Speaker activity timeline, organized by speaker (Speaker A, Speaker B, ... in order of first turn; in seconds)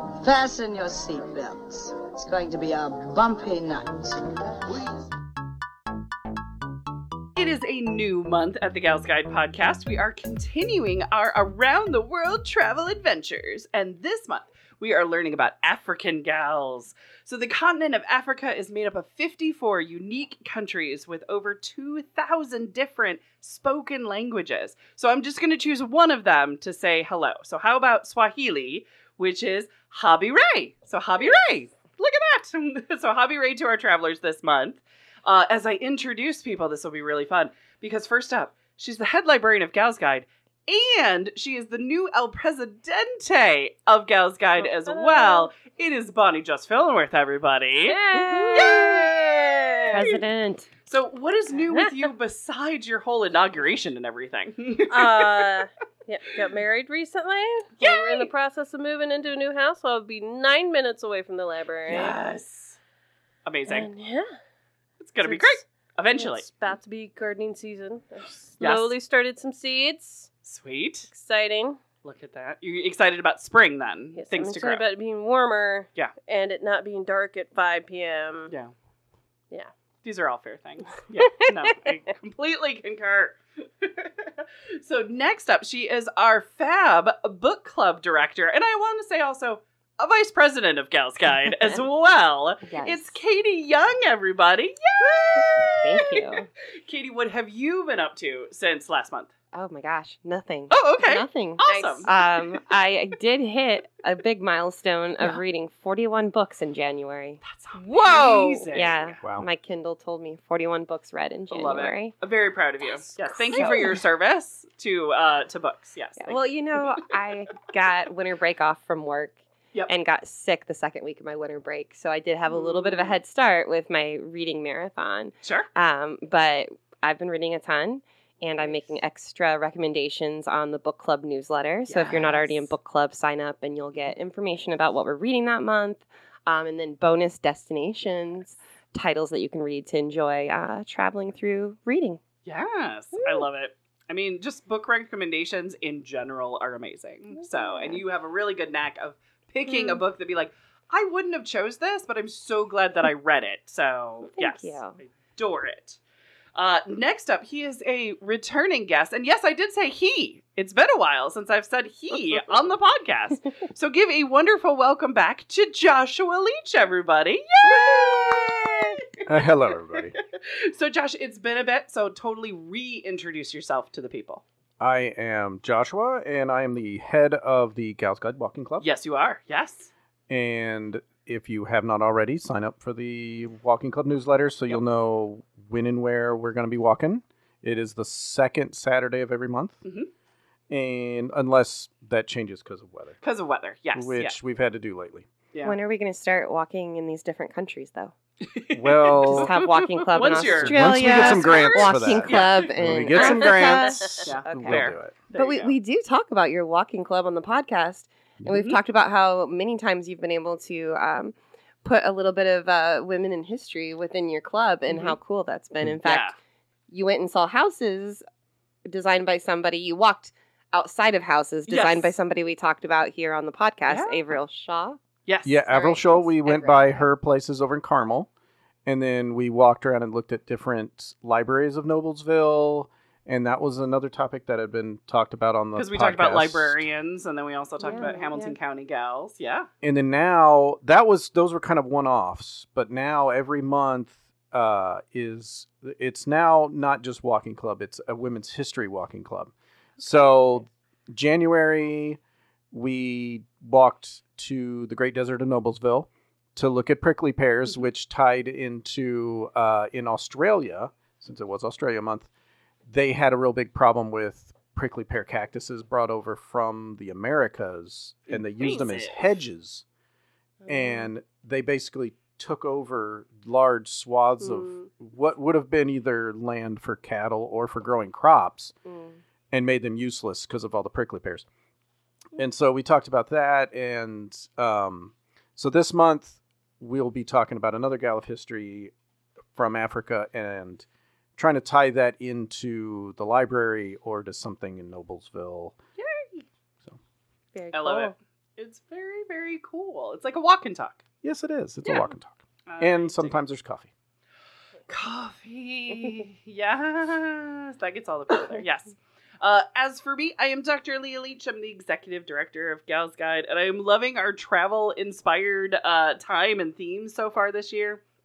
Speaker A: 0.2-4.2
Speaker B: 7.3-48.0, 48.5-50.0, 50.9-55.5, 57.8-58.3, 61.9-62.8, 63.4-63.9, 65.0-66.5, 68.6-68.9, 70.4-71.1, 72.0-74.8, 80.0-96.2, 96.8-99.3, 100.7-102.2, 107.4-109.2, 111.5-116.4, 122.5-123.1, 125.4-125.7, 128.6-128.9, 131.9-132.6, 142.4-156.0, 156.5-169.0, 170.3-174.4, 178.8-179.9, 189.8-190.1, 193.2-194.4, 198.4-205.8, 208.5-208.8, 214.9-215.2, 216.0-216.3, 221.7-222.1, 223.8-224.3, 225.2-225.6, 235.7-239.7, 268.3-269.4, 296.0-296.4, 297.7-301.0, 302.7-303.4, 304.9-318.0
Speaker C: 44.6-45.5, 47.8-50.1, 54.9-62.2, 63.7-64.3, 65.2-65.6, 66.2-70.3, 71.1-71.8, 74.2-78.5, 101.6-102.1, 113.5-113.8, 149.7-150.0, 203.2-203.9, 270.7-271.1, 274.4-274.9, 278.9-279.2
Speaker D: 48.1-49.0, 49.9-50.7, 91.5-91.8, 92.6-93.2, 95.1-96.5, 99.5-112.2, 112.8-114.0, 116.2-142.2, 147.4-148.0, 154.3-155.0, 167.7-168.4, 195.6-198.1, 199.2-216.3, 216.9-218.2, 218.8-225.0, 225.6-227.1, 237.8-238.6, 297.5-298.1
Speaker E: 169.2-170.2, 174.8-178.9, 180.3-189.8, 190.7-193.2, 193.9-195.3, 198.7-199.5, 200.6-205.1, 225.4-228.3, 228.8-236.8, 239.8-252.2, 252.7-262.3, 262.9-269.8, 270.7-278.7, 279.5-281.4, 282.4-288.9, 289.5-290.9, 291.4-295.8, 301.2-303.9